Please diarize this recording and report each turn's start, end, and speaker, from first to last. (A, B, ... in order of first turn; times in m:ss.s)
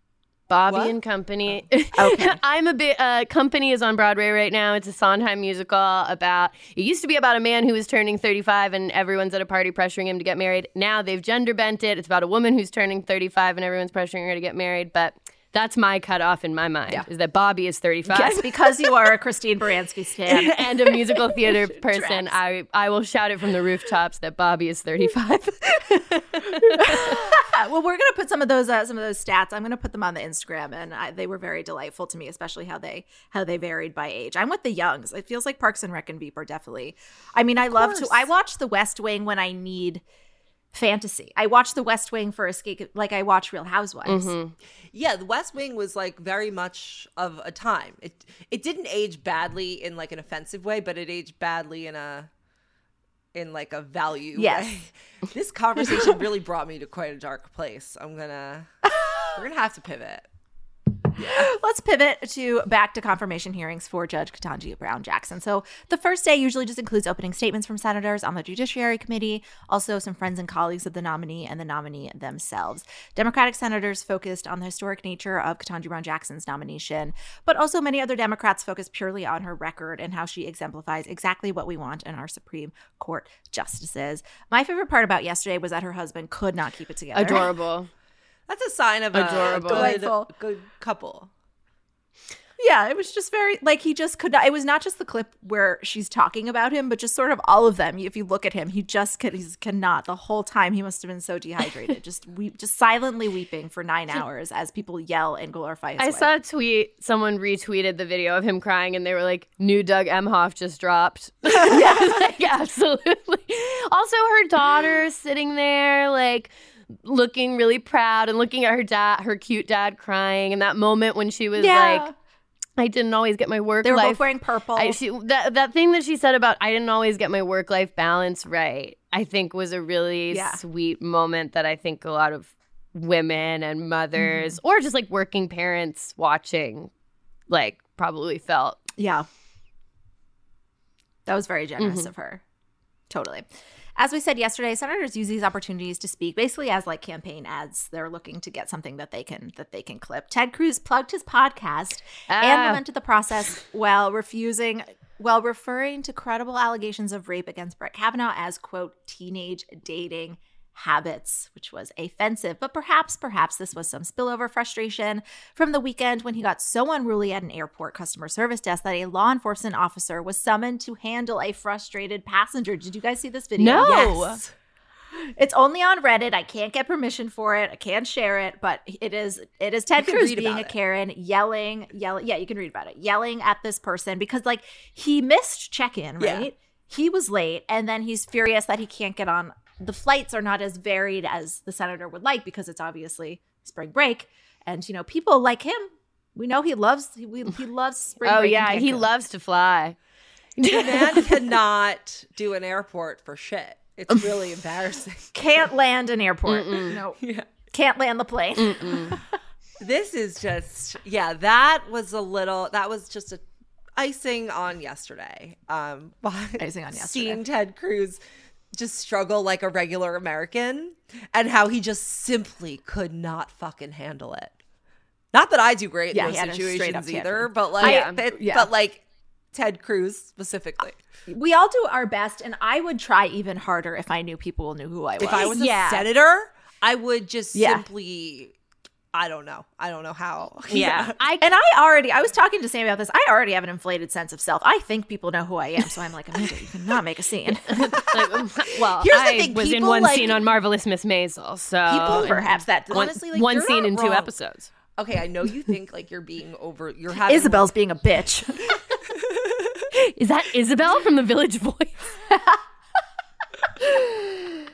0:00.5-0:18.5 A
0:02.0-0:02.4 B
0:18.1-0:21.2 B
0:20.3-0:27.4 A
0:21.8-0:22.4 B
0:26.7-0:40.0 B
0:37.6-0:38.3 C
0:40.7-0:44.3 B
0:44.0-0:44.5 A
0:44.9-0:52.3 C
0:53.3-0:58.7 C
0:54.4-0:54.7 B
0:59.0-0:59.4 B
0:59.4-1:00.3 C
1:01.2-1:01.5 C
1:01.2-1:27.4 B
1:27.1-1:27.9 A
1:28.5-1:31.3 C
1:29.1-1:30.0 A
1:29.3-1:30.3 B
1:32.6-1:46.3 B
1:46.0-2:02.1 A
1:51.6-1:52.3 B
2:01.6-2:02.1 B
2:02.8-2:16.9 A
2:03.8-2:05.0 B
2:10.3-2:10.6 B
2:14.2-2:14.6 B
2:17.5-2:18.8 A
2:19.0-2:19.3 B
2:21.3-2:22.4 B
2:21.8-2:22.1 A
2:23.1-2:54.2 B
2:32.3-2:32.8 A
2:53.6-2:54.4 A
2:53.8-2:54.5 C
2:55.4-3:19.1 B
3:00.0-3:00.8 C
3:06.2-3:06.5 C
3:18.2-3:20.0 A
3:20.6-3:21.3 A
3:20.7-3:25.3 C
3:25.3-3:27.2 B
3:26.5-3:27.0 A
3:27.2-3:27.5 C
3:27.7-3:29.2 B
3:28.6-3:29.2 A
3:29.8-3:33.4 C
3:34.0-3:38.2 C
3:36.6-3:37.4 B
3:38.7-3:44.6 C
3:45.3-3:51.0 C
3:46.1-3:48.7 B
3:47.8-3:48.2 A
3:51.3-3:55.6 B
3:55.2-3:58.5 C
3:55.3-3:56.1 A
3:57.5-3:57.8 B
3:59.1-4:01.1 C
4:00.7-4:01.5 A
4:01.4-4:08.4 B
4:07.7-4:14.7 A
4:09.0-4:10.4 C
4:11.9-4:13.2 B
4:11.9-4:14.3 C
4:15.0-4:17.7 C
4:17.1-4:18.8 B
4:19.9-4:22.2 A
4:22.3-4:22.6 B
4:23.8-4:24.6 B